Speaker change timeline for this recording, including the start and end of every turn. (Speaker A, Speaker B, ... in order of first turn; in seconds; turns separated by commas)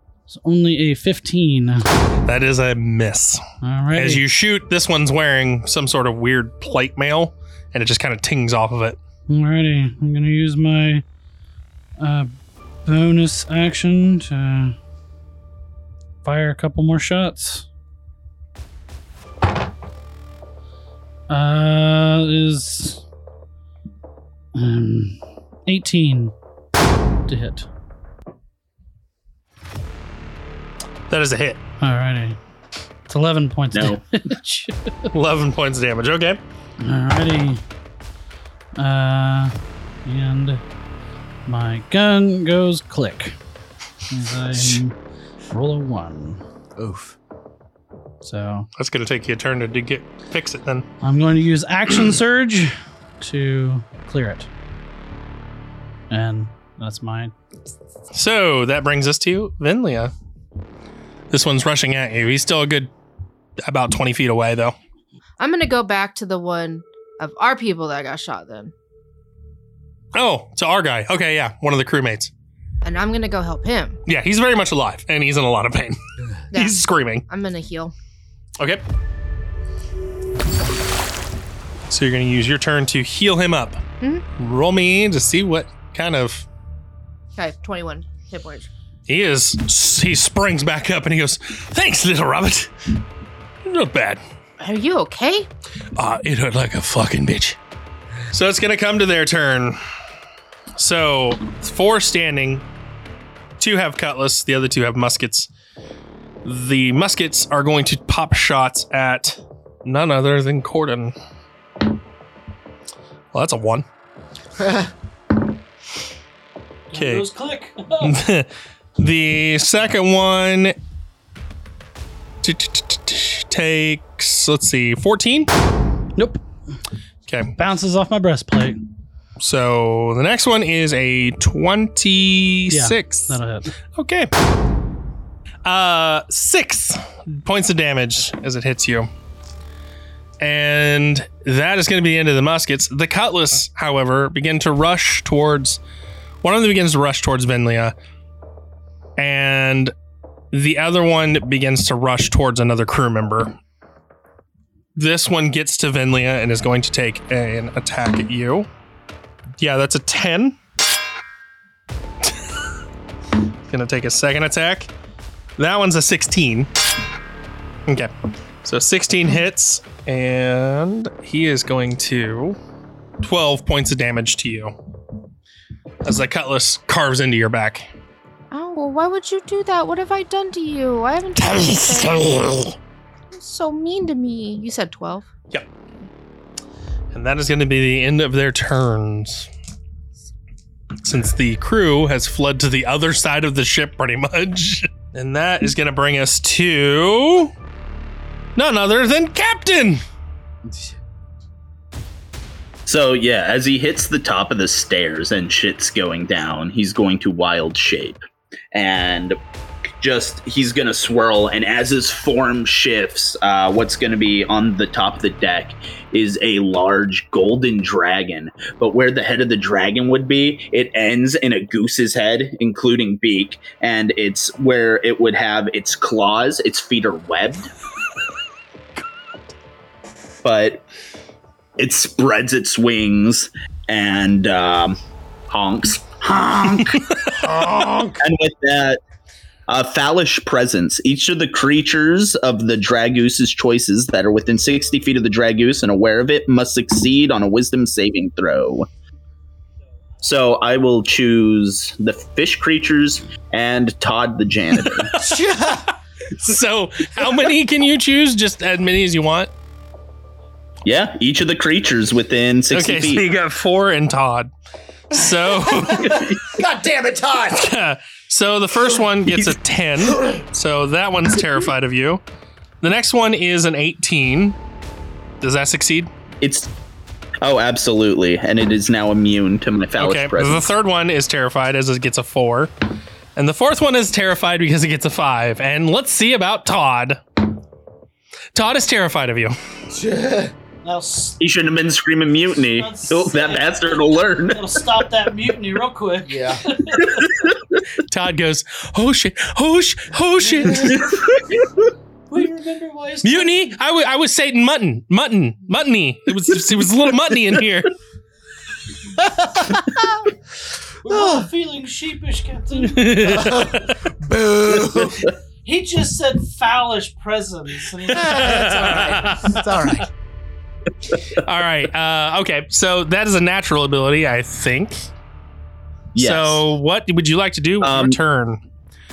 Speaker A: 0.3-1.9, Speaker B: 2.3-3.4, Speaker A: 3.6-4.2, Speaker B: 3.9-9.0, Speaker A: 9.3-11.0, Speaker A: 12.0-12.3, Speaker A: 12.8-14.8, Speaker A: 16.2-17.6, Speaker A: 21.3-23.0, Speaker A: 24.5-26.3, Speaker A: 27.3-27.6, Speaker B: 31.1-31.6, Speaker A: 31.8-32.4, Speaker A: 33.1-35.1, Speaker C: 33.7-34.0, Speaker B: 35.1-36.4, Speaker A: 36.8-37.6, Speaker A: 38.8-39.5, Speaker A: 40.0-40.6, Speaker A: 41.5-43.4, Speaker A: 44.1-45.0, Speaker A: 45.5-46.4, Speaker D: 46.8-47.1, Speaker A: 48.2-48.7, Speaker B: 48.8-50.9, Speaker A: 51.0-54.5, Speaker A: 56.1-57.3, Speaker B: 58.1-60.1, Speaker B: 61.3-62.9, Speaker B: 63.6-64.7, Speaker E: 65.4-68.7, Speaker B: 70.1-72.3, Speaker E: 72.8-74.0, Speaker B: 74.1-76.0, Speaker B: 76.5-77.2, Speaker E: 76.5-77.9, Speaker B: 81.9-83.8, Speaker B: 84.4-86.5, Speaker E: 87.3-88.7, Speaker B: 89.1-93.0, Speaker B: 93.6-94.2, Speaker E: 94.6-95.5, Speaker B: 96.0-97.6, Speaker B: 98.3-99.8, Speaker B: 100.8-102.6, Speaker B: 103.6-105.5, Speaker B: 106.4-111.1, Speaker B: 113.3-113.8, Speaker D: 114.6-114.9, Speaker A: 116.9-118.2, Speaker B: 116.9-117.3, Speaker B: 118.0-120.8, Speaker B: 122.4-125.5, Speaker A: 126.2-126.4, Speaker B: 127.3-127.5, Speaker A: 127.6-128.8, Speaker B: 129.4-133.4, Speaker A: 132.7-133.7, Speaker B: 133.9-134.3, Speaker B: 135.6-139.1, Speaker B: 140.4-145.8, Speaker B: 146.4-147.9, Speaker B: 149.2-149.9, Speaker B: 150.5-153.5, Speaker B: 154.9-158.7, Speaker B: 159.6-160.6, Speaker B: 163.7-164.9, Speaker B: 165.6-166.7, Speaker B: 167.9-168.1, Speaker B: 168.6-172.6, Speaker B: 173.2-174.7, Speaker B: 176.0-177.9, Speaker E: 178.5-182.4, Speaker B: 181.4-182.7, Speaker E: 183.3-185.2, Speaker B: 187.1-189.5, Speaker B: 191.0-197.5, Speaker B: 198.6-200.0, Speaker D: 200.7-200.9, Speaker C: 202.8-208.2, Speaker C: 208.7-209.4, Speaker C: 210.0-227.7, Speaker C: 230.4-230.8, Speaker C: 231.8-235.0, Speaker C: 235.5-237.4, Speaker D: 237.4-238.2, Speaker C: 238.2-239.0, Speaker C: 239.7-248.9, Speaker C: 250.2-255.1, Speaker B: 254.8-255.8, Speaker D: 255.2-255.9, Speaker B: 256.3-259.5, Speaker C: 260.8-263.2, Speaker B: 262.7-264.5, Speaker B: 265.1-266.3, Speaker D: 265.7-267.7, Speaker C: 265.9-266.5, Speaker B: 267.5-272.2, Speaker B: 272.8-274.6, Speaker B: 275.4-276.1, Speaker C: 276.4-276.7, Speaker C: 277.4-280.6, Speaker B: 280.0-282.7, Speaker B: 283.4-287.2, Speaker B: 288.5-289.5, Speaker D: 289.9-290.5, Speaker A: 290.8-291.4, Speaker C: 291.4-294.8, Speaker A: 292.7-297.2, Speaker D: 296.2-296.6, Speaker B: 298.0-301.1, Speaker A: 300.4-301.1, Speaker A: 302.3-303.7, Speaker B: 303.2-307.9, Speaker A: 311.0-313.6, Speaker D: 311.1-311.5, Speaker B: 312.8-313.9, Speaker D: 313.3-315.3, Speaker A: 315.6-319.4, Speaker D: 318.1-320.1, Speaker B: 318.1-320.0, Speaker B: 321.4-325.1, Speaker C: 326.1-326.6, Speaker B: 326.1-328.6, Speaker C: 327.8-328.2